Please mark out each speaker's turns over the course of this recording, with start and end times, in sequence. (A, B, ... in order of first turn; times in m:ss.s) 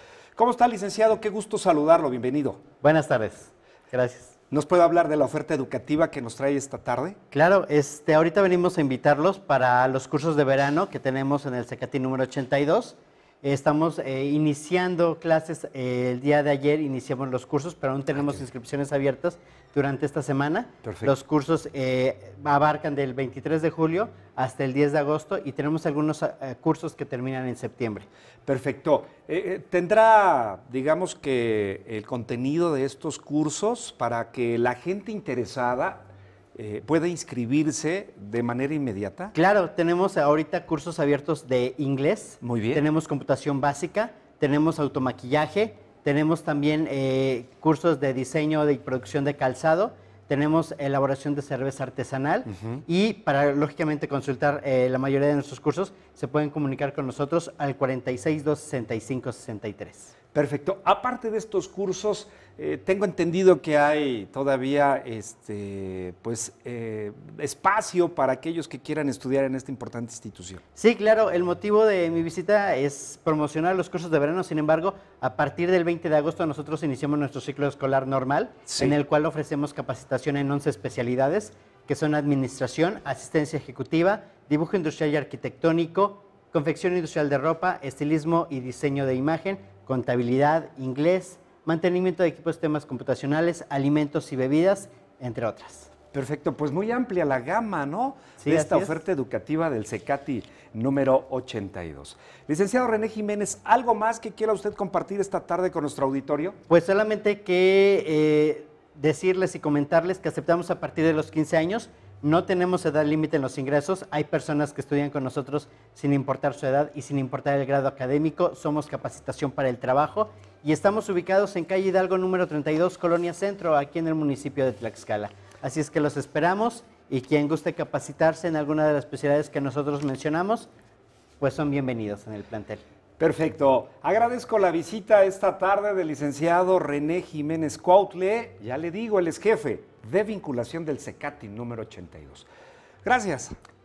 0:00.4-0:02.6 A
0:02.8-0:04.4 B
0:04.5-0:07.2 A
0:07.3-0:28.1 B
0:20.8-0:21.1 A
0:28.5-0:39.3 A
0:39.3-1:00.1 B
0:42.4-0:42.8 A
1:00.3-1:10.6 A
1:10.8-1:35.9 B
1:18.7-1:18.9 A
1:36.1-1:46.6 A
1:38.4-1:39.0 B
1:46.7-2:10.7 B
2:11.4-2:12.8 B
2:13.2-2:22.5 A
2:23.0-2:23.5 A